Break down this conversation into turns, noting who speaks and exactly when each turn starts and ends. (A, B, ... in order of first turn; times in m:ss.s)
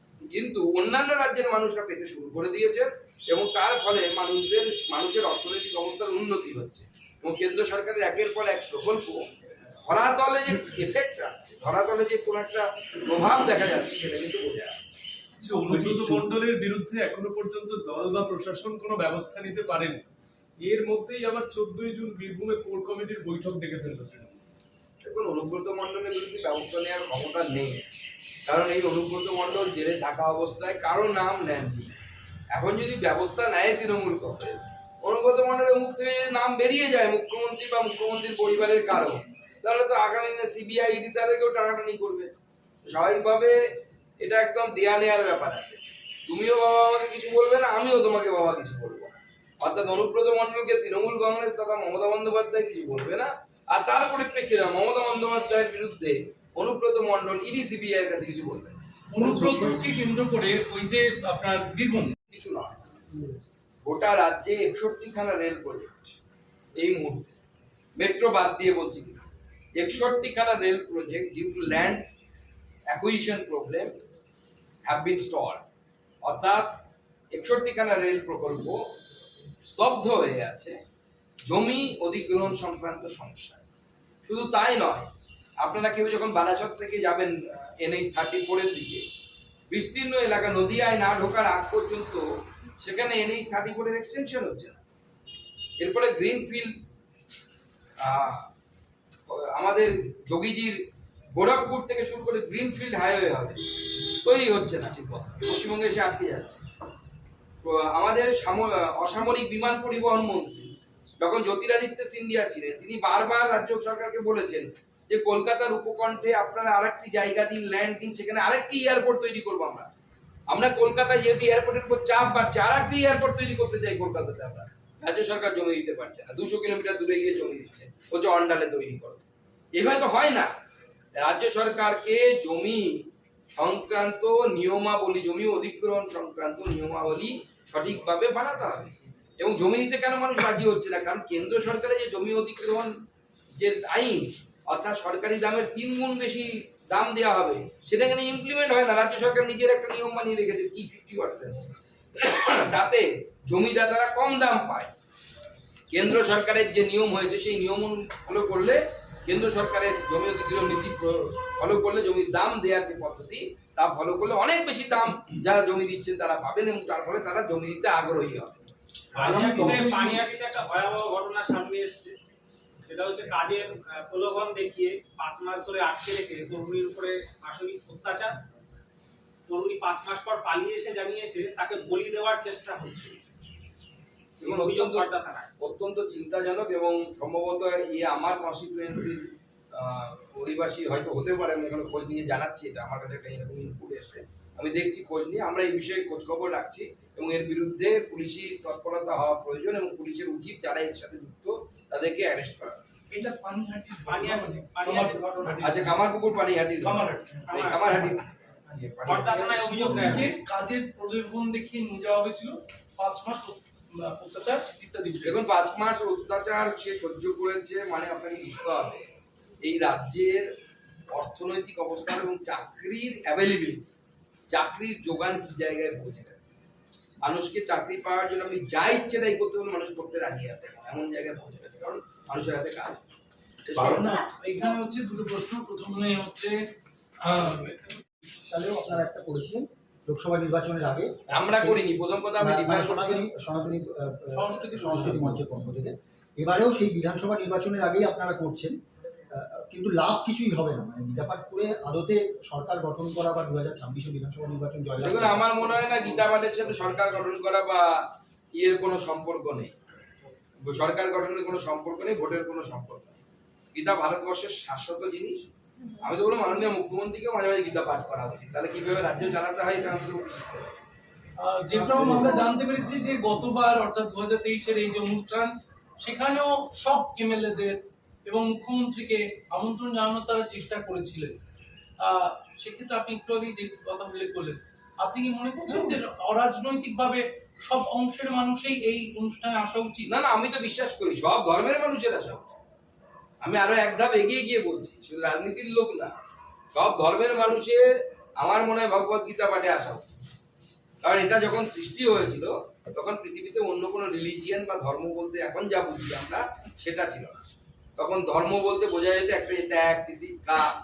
0:00.2-0:09.2 A
0:09.8-0:14.9 A
0:15.4-0:20.0 B
0:15.6-0:16.3 C
0:20.6-0:24.4 B
0:25.0-0:27.8 A
0:28.4-0:31.9 A
0:32.5-0:42.3 A
0:42.9-0:43.6 A
0:44.2-0:58.8 A
0:59.1-1:02.1 C
1:02.3-1:02.8 A
1:03.8-1:06.0 A
1:06.8-1:07.4 A
1:08.0-1:09.2 A
1:09.8-1:12.0 A
1:12.9-1:13.9 A
1:14.8-1:15.6 A
1:16.2-1:16.7 A
1:17.3-1:18.8 A
1:19.6-1:20.8 A
1:21.4-1:23.6 A
1:24.2-1:25.1 A
1:25.6-1:29.0 A
1:29.7-1:32.2 A
1:32.8-1:34.8 A
1:35.8-1:36.7 A
1:38.0-1:38.4 A
1:39.3-1:40.8 A
1:41.3-1:43.6 A
1:44.2-1:46.6 A
1:47.6-1:59.9 A
2:00.5-2:09.2 A
2:09.7-2:10.5 A
2:11.2-2:22.9 A
2:23.6-2:31.6 A
2:32.2-2:34.9 A
2:35.9-2:48.7 A
2:49.1-2:52.1 D
2:49.2-2:50.2 E
2:52.8-2:58.3 D
2:59.5-3:03.2 D
3:04.4-3:05.5 D
3:04.4-3:05.1 A
3:05.6-3:09.2 A
3:09.7-3:22.8 A
3:23.1-3:25.9 C
3:24.1-3:25.9 D
3:25.6-3:29.4 A
3:26.8-3:27.5 C
3:27.5-3:27.9 D
3:29.0-3:30.3 D
3:29.3-3:35.4 C
3:35.2-3:39.0 A
3:39.6-3:40.4 A
3:41.1-3:43.9 A
3:44.5-3:46.5 A
3:47.2-3:53.0 A
3:53.6-3:54.2 A
3:53.8-3:56.6 C
3:57.2-3:57.8 C
3:58.5-4:01.8 E
4:01.3-4:03.3 A
4:02.4-4:08.8 E
4:04.3-4:05.4 C
4:09.3-4:15.7 E
4:15.0-4:18.0 A
4:18.6-4:19.7 A
4:20.6-4:23.2 A
4:23.7-4:25.5 A
4:26.0-4:30.5 A
4:31.4-4:35.5 C
4:36.0-4:41.3 C
4:42.0-4:50.1 C
4:50.1-4:52.5 A
4:53.4-4:56.1 A
4:56.7-4:57.8 A
4:58.4-5:00.0 A
5:01.0-5:10.7 A